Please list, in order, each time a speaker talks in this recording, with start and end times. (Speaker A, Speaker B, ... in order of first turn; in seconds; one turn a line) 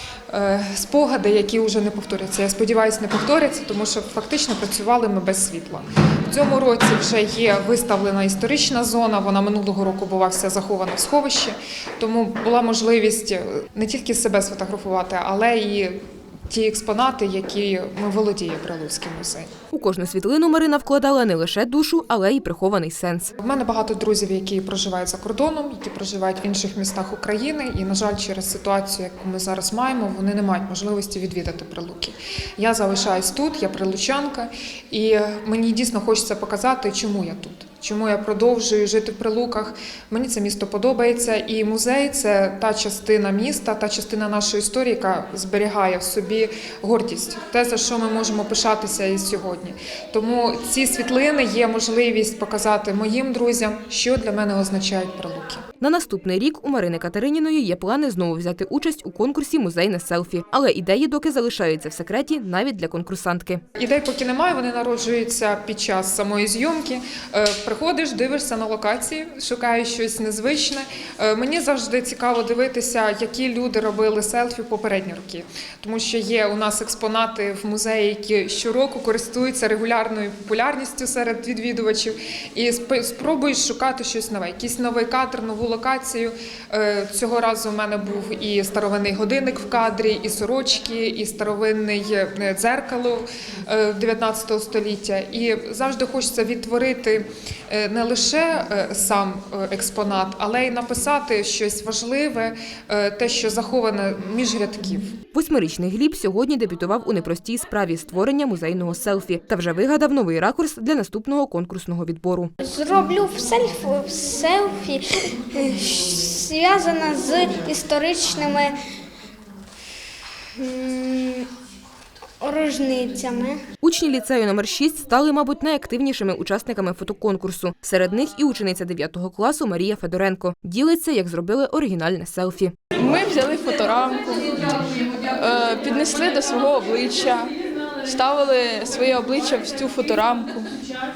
Speaker A: 0.3-19.5
Speaker B: 19.7-23.3
Speaker A: 23.4-55.6
Speaker B: 55.8-63.6
Speaker A: 63.8-105.1
Speaker B: 105.3-112.5
Speaker C: 112.6-118.8
Speaker C: 120.6-121.5
Speaker C: 122.4-123.6
Speaker B: 123.8-132.8
Speaker D: 132.9-137.5
Speaker D: 138.0-140.7